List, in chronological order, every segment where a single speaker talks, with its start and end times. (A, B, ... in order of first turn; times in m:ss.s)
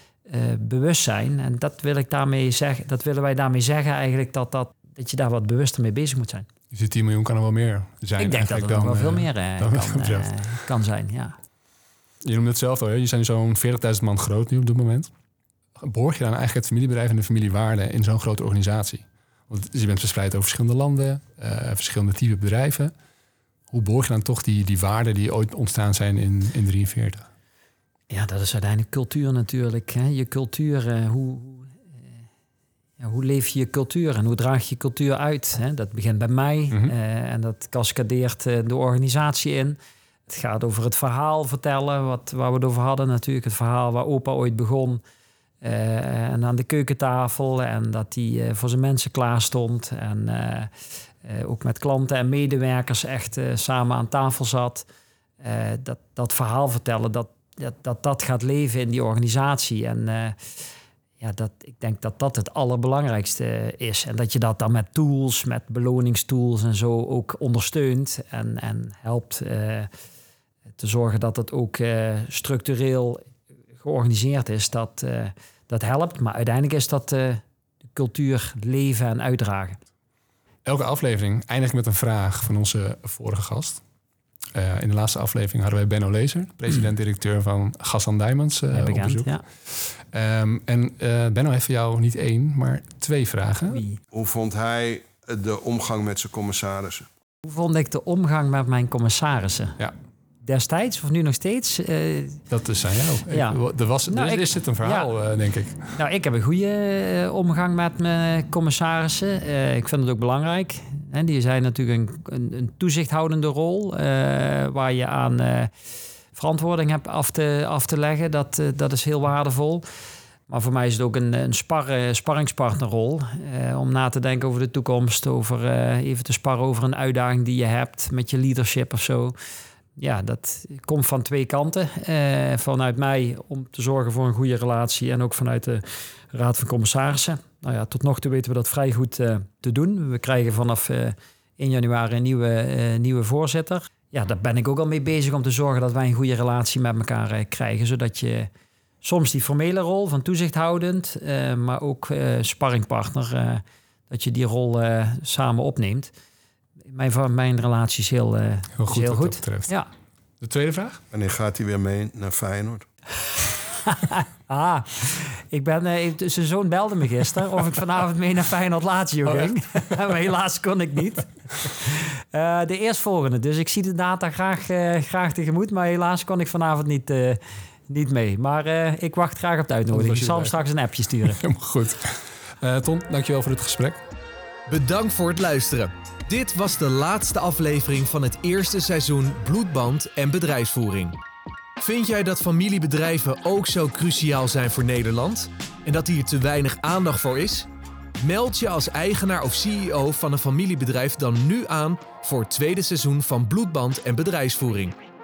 0:00.3-0:06.5 A
0:06.7-0:10.3 B
0:08.2-0:11.4 A
0:12.2-0:15.1 B
0:15.8-0:22.9 B
0:23.7-0:27.3 B
0:28.1-0:31.8 A
0:33.0-0:39.8 A
0:40.3-0:45.0 A
0:45.6-0:50.7 A
0:51.2-0:54.9 A
0:55.4-1:00.6 A
1:01.2-1:09.9 A
1:10.8-1:13.2 A
1:13.8-1:19.8 A
1:20.6-1:23.8 B
1:24.5-1:33.8 B
1:28.7-1:29.4 A
1:33.7-1:34.0 A
1:34.1-1:37.1 C
1:37.4-1:39.8 A
1:40.4-1:42.4 A
1:42.5-1:45.9 B
1:43.3-1:45.1 A
1:45.9-1:55.7 A
1:56.3-1:59.8 A
2:00.5-2:09.4 A
2:10.0-2:28.5 A
2:29.0-2:36.1 A
2:36.9-2:39.9 A
2:38.8-2:39.7 B
2:40.4-2:41.0 B
2:41.1-2:42.9 C
2:43.8-3:01.4 A
2:59.9-3:00.6 B
3:01.2-3:04.0 B
3:04.7-3:11.2 D
3:11.8-3:17.7 D
3:18.2-3:25.0 D